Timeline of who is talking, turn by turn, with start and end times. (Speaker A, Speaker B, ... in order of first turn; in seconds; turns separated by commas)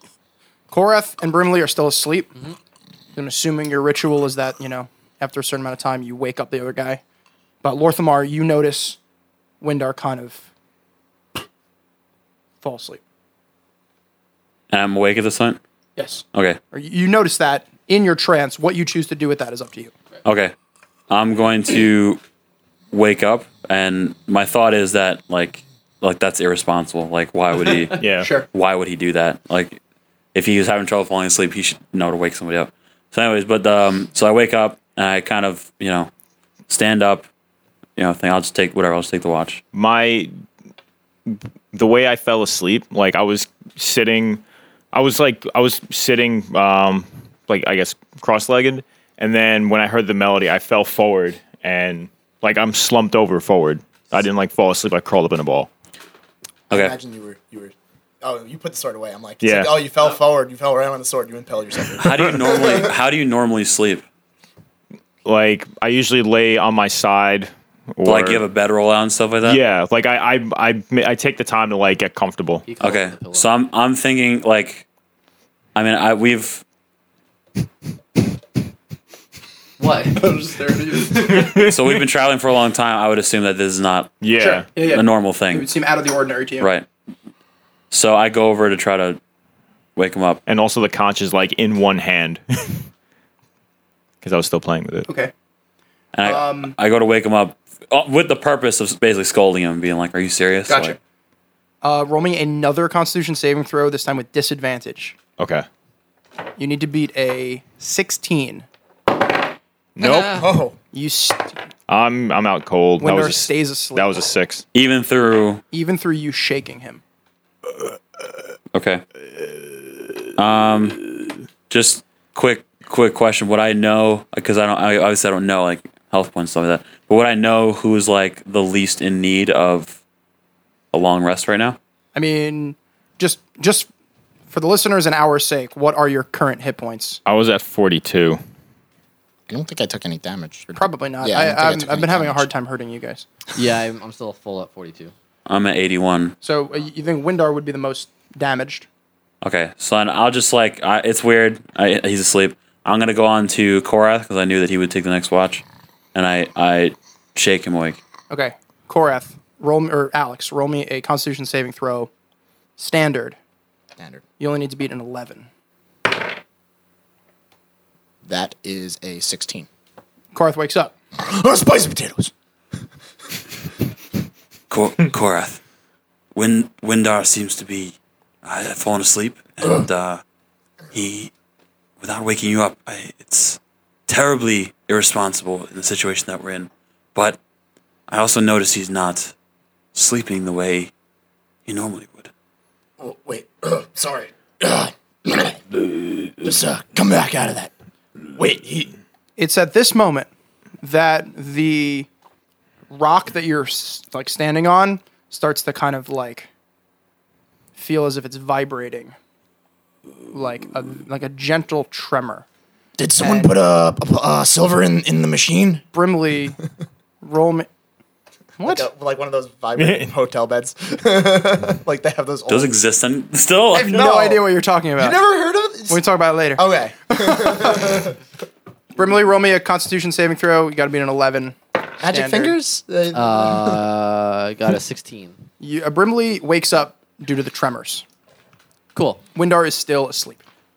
Speaker A: 0.7-2.3, Speaker A: 3.1-7.0, Speaker A: 7.6-9.0, Speaker A: 9.6-10.5, Speaker A: 12.6-13.0, Speaker B: 14.7-15.6, Speaker A: 16.0-19.9, Speaker B: 16.3-16.6, Speaker B: 20.2-20.5, Speaker B: 21.1-22.2, Speaker B: 22.9-29.8, Speaker C: 27.9-28.3, Speaker A: 28.2-28.5, Speaker B: 30.3-36.1, Speaker B: 36.7-37.2, Speaker B: 38.0-39.6, Speaker C: 39.7-40.3, Speaker C: 41.3-55.7, Speaker B: 56.7-57.0, Speaker D: 56.7-62.9, Speaker C: 59.4-59.8, Speaker B: 62.0-64.0, Speaker C: 65.2-68.4, Speaker B: 68.0-69.6, Speaker C: 69.4-72.6, Speaker E: 72.7-73.5, Speaker B: 72.8-74.8, Speaker B: 75.7-76.6, Speaker E: 79.8-80.3, Speaker A: 80.1-81.6, Speaker C: 81.1-82.0, Speaker B: 81.6-84.2, Speaker C: 84.2-84.7, Speaker A: 84.4-86.7, Speaker B: 84.7-85.7, Speaker B: 86.6-86.8, Speaker B: 87.9-89.2, Speaker B: 90.0-90.4, Speaker C: 90.5-92.8, Speaker C: 94.2-95.1, Speaker B: 96.1-101.0, Speaker A: 96.2-96.7, Speaker A: 100.7-101.0, Speaker A: 101.8-105.2, Speaker C: 105.4-105.7, Speaker A: 106.6-108.7, Speaker C: 110.0-110.5, Speaker E: 110.0-110.4, Speaker D: 110.2-110.8, Speaker A: 110.9-111.5, Speaker C: 111.9-114.6, Speaker A: 113.0-114.3, Speaker B: 114.7-115.6, Speaker A: 115.7-117.0, Speaker B: 118.7-119.0, Speaker B: 120.4-121.1, Speaker B: 121.7-130.0, Speaker B: 130.9-131.8, Speaker A: 132.1-133.9, Speaker A: 134.5-137.2, Speaker C: 137.2-138.4, Speaker D: 139.5-142.5, Speaker A: 140.7-143.2, Speaker E: 143.5-145.1, Speaker B: 145.4-146.3, Speaker A: 146.4-148.9, Speaker B: 149.4-155.6, Speaker B: 156.1-158.0, Speaker A: 158.3-162.1, Speaker A: 162.8-163.3, Speaker A: 164.4-165.5, Speaker D: 168.2-169.7, Speaker A: 170.3-170.9, Speaker D: 171.2-172.3, Speaker B: 174.7-175.6, Speaker B: 176.3-180.2, Speaker B: 180.9-181.3, Speaker B: 182.0-187.4, Speaker B: 188.1-189.3, Speaker B: 189.9-190.9, Speaker B: 191.7-192.3, Speaker D: 193.0-195.6, Speaker D: 196.4-197.7, Speaker D: 198.3-198.9, Speaker A: 199.4-200.3, Speaker A: 200.8-202.1, Speaker A: 202.9-206.5, Speaker A: 207.8-209.1, Speaker A: 210.3-212.4, Speaker D: 213.0-215.8, Speaker A: 213.2-213.6, Speaker A: 215.9-216.6, Speaker A: 217.2-217.7, Speaker A: 218.6-218.9, Speaker D: 218.6-222.8, Speaker C: 219.8-220.1, Speaker B: 222.5-224.1, Speaker A: 223.7-225.2, Speaker D: 223.9-226.0, Speaker A: 225.9-228.1, Speaker D: 226.5-228.2, Speaker A: 228.9-232.6, Speaker D: 232.0-233.9, Speaker E: 233.1-235.4, Speaker A: 235.6-238.0, Speaker E: 238.9-239.2, Speaker A: 239.3-240.4